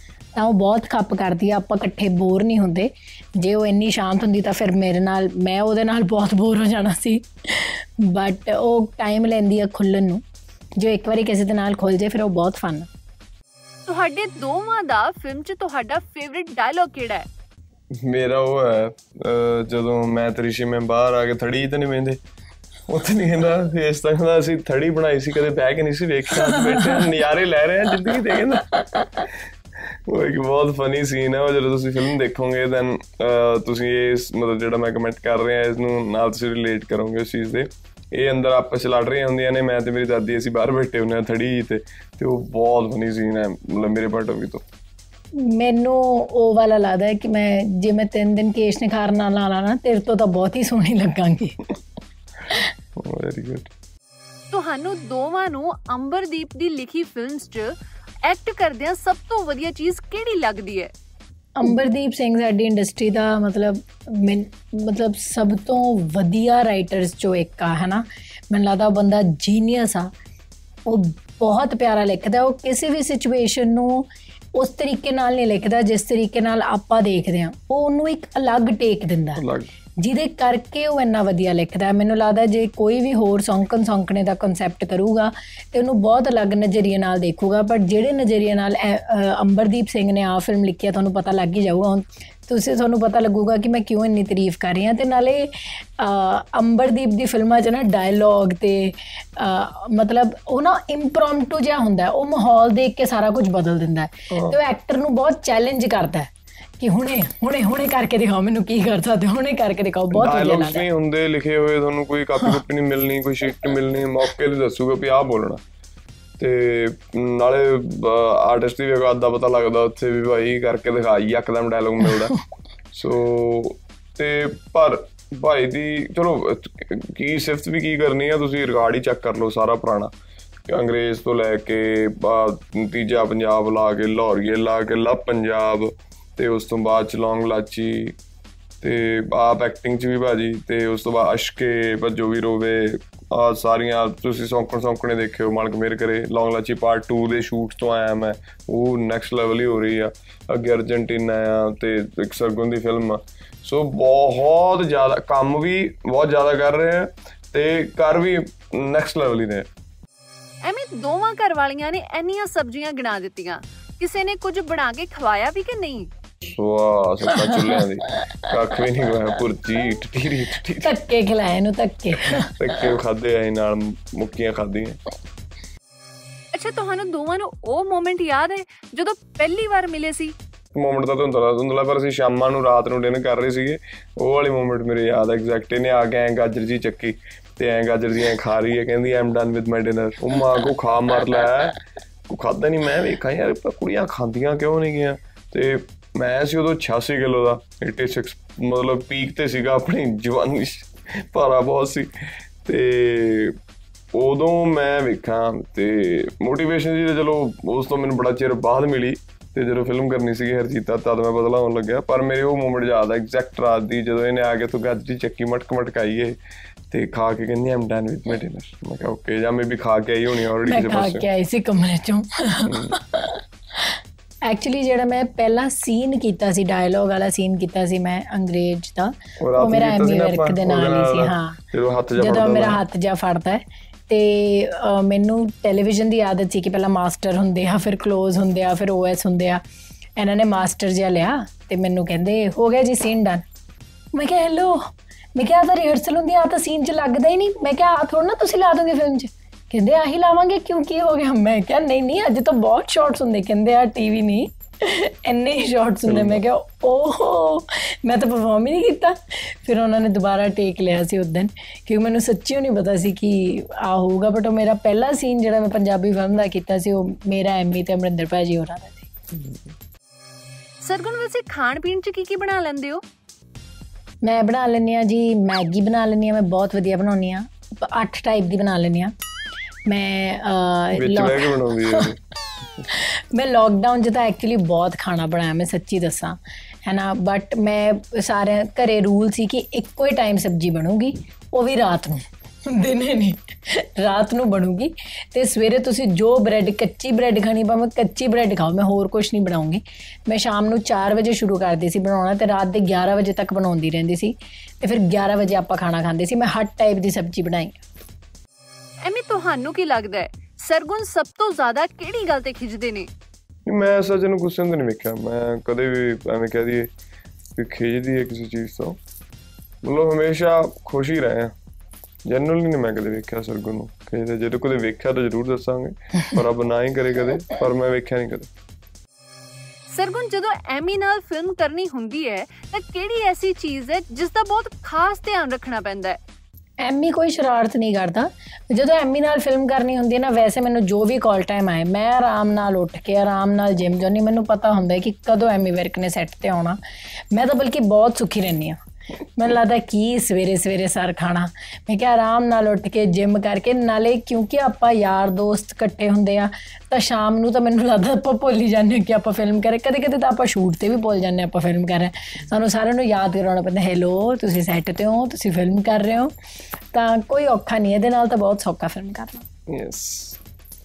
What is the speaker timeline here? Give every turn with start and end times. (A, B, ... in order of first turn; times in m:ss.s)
0:00.4-0:10.2 A
0:10.8-0:12.9 A
0:13.9-0:17.3 B
0:18.0-0:22.2 C
0:22.9-0:29.3 C
0:30.1-0:44.6 C
0:45.4-0:51.7 A
0:53.0-0:53.7 C
0:54.5-0:57.7 B
0:58.2-1:00.9 B
1:01.6-1:10.1 A
1:10.9-1:19.4 A
1:19.4-1:19.7 C
1:20.0-1:50.8 A
1:44.3-1:44.6 C
1:50.1-1:55.6 C
1:56.4-2:02.4 C
2:02.9-2:10.1 C
2:10.7-2:18.2 C
2:18.8-2:39.7 C
2:40.6-2:46.1 B
2:46.5-2:50.9 C
2:47.6-2:47.8 A
2:50.8-2:52.5 A
2:52.2-2:55.0 C
2:56.5-3:00.4 B
3:00.7-3:11.8 C
3:12.3-3:23.6 C
3:24.1-3:36.4 C
3:36.9-3:41.3 C
3:40.7-3:51.6 A
3:42.7-3:43.0 C
3:49.4-3:52.8 C
3:52.2-3:59.6 A
4:00.2-4:03.4 A
4:04.1-4:04.8 A
4:05.4-4:29.1 A
4:16.1-4:16.4 C
4:30.8-4:33.0 B
4:34.2-4:39.1 A
4:39.9-4:42.1 A
4:41.0-4:42.2 C
4:42.9-5:07.8 A
5:09.0-5:13.1 B
5:13.7-5:16.9 C
5:17.6-5:19.0 C
5:19.8-5:21.5 C
5:22.2-5:28.5 C
5:29.9-5:36.2 B
5:36.8-5:46.8 A
5:47.3-5:48.8 A
5:49.4-6:06.3 A
6:06.9-6:09.4 A
6:09.7-6:10.4 C